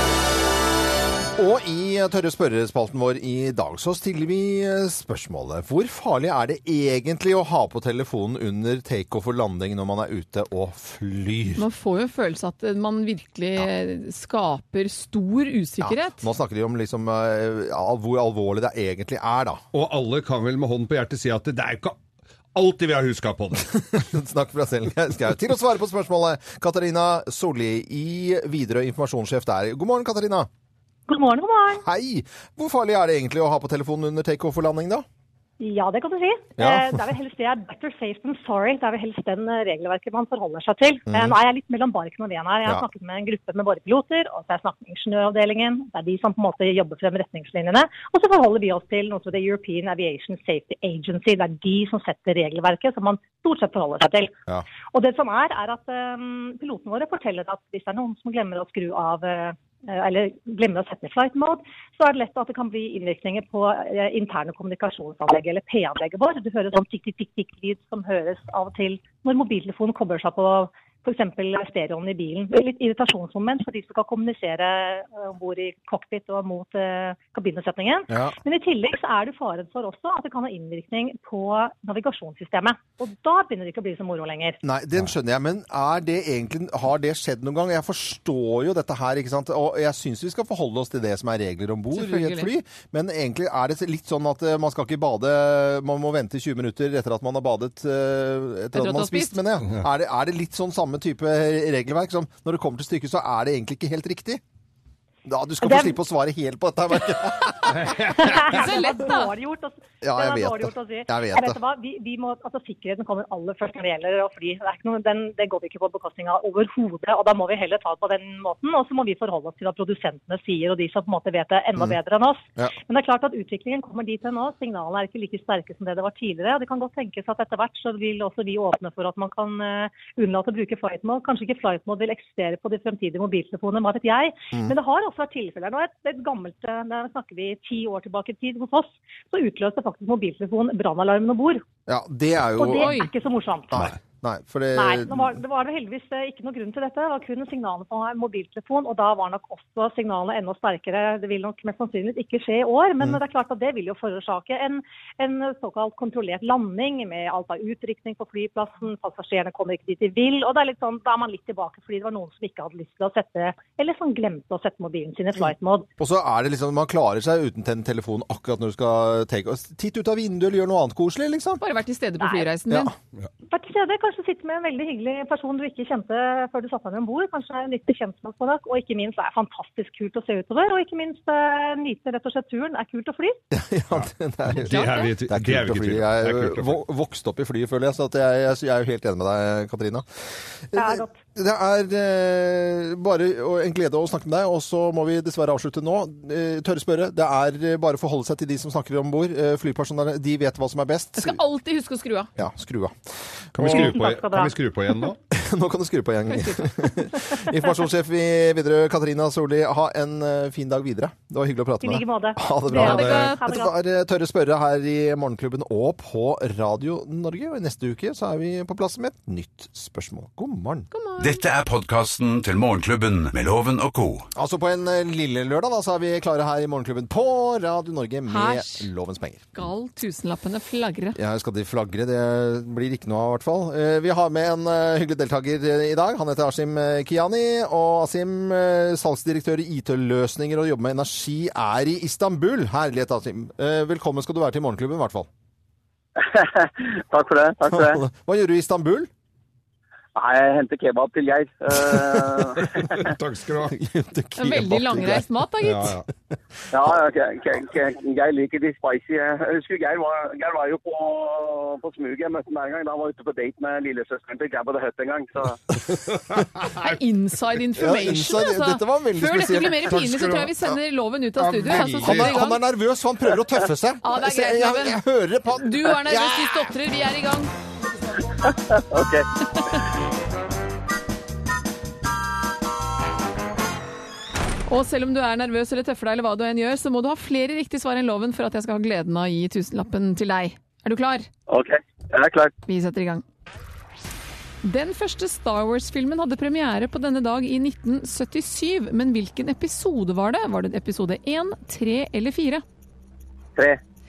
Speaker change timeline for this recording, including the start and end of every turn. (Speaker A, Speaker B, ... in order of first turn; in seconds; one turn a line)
Speaker A: 1.4-11.6
Speaker B: 11.6-16.2
Speaker A: 15.8-19.6
Speaker C: 19.7-22.0
Speaker C: 22.5-23.7
Speaker A: 23.9-30.5
Speaker D: 31.1-31.8
Speaker A: 31.8-35.0
Speaker D: 35.6-54.3
Speaker A: 36.6-37.0
Speaker A: 41.1-41.4
Speaker D: 54.9-84.6
Speaker A: 78.1-78.3
Speaker A: 84.6-104.4
Speaker B: 91.9-92.5
Speaker B: 98.7-99.4
Speaker A: 105.2-108.6
Speaker D: 105.7-105.9
Speaker C: 107.7-108.5
Speaker D: 107.8-141.6
Speaker B: 108.2-109.3
Speaker A: 110.0-111.6
Speaker A: 141.9-143.0
Speaker D: 142.6-143.8
Speaker B: 142.8-143.1
Speaker A: 143.7-145.3
Speaker D: 144.7-165.9
Speaker A: 166.0-171.6
Speaker B: 171.6-172.9
Speaker D: 173.5-183.4
Speaker A: 183.5-201.4
Speaker B: 184.6-185.1
Speaker C: 184.6-186.8
Speaker D: 190.7-191.2
Speaker B: 201.2-202.3
Speaker A: 202.4-203.0
Speaker A: 203.5-204.0
Speaker C: 203.6-205.2
Speaker D: 203.6-204.6
Speaker A: 205.3-220.9
Speaker D: 211.8-213.7
Speaker B: 212.7-213.6
Speaker B: 220.9-221.4
Speaker E: 221.2-224.3
Speaker A: 224.3-229.4
Speaker B: 228.3-228.9
Speaker B: 229.5-231.2
Speaker A: 231.2-245.3
Speaker F: 246.2-248.0
Speaker A: 247.7-249.1
Speaker F: 250.2-253.1
Speaker A: 251.7-252.7
Speaker C: 253.0-253.8
Speaker A: 253.7-255.3
Speaker B: 254.4-255.9
Speaker C: 255.6-256.0
Speaker F: 256.7-265.6
Speaker C: 265.9-266.9
Speaker B: 266.7-272.6
Speaker A: 267.8-270.0
Speaker C: 269.9-270.5
Speaker C: 271.4-272.3
Speaker A: 271.6-276.7
Speaker B: 274.0-275.0
Speaker B: 275.5-277.5
Speaker F: 278.4-279.2
Speaker B: 284.7-291.3
Speaker F: 291.5-292.5
Speaker B: 292.6-293.2
Speaker B: 294.6-302.6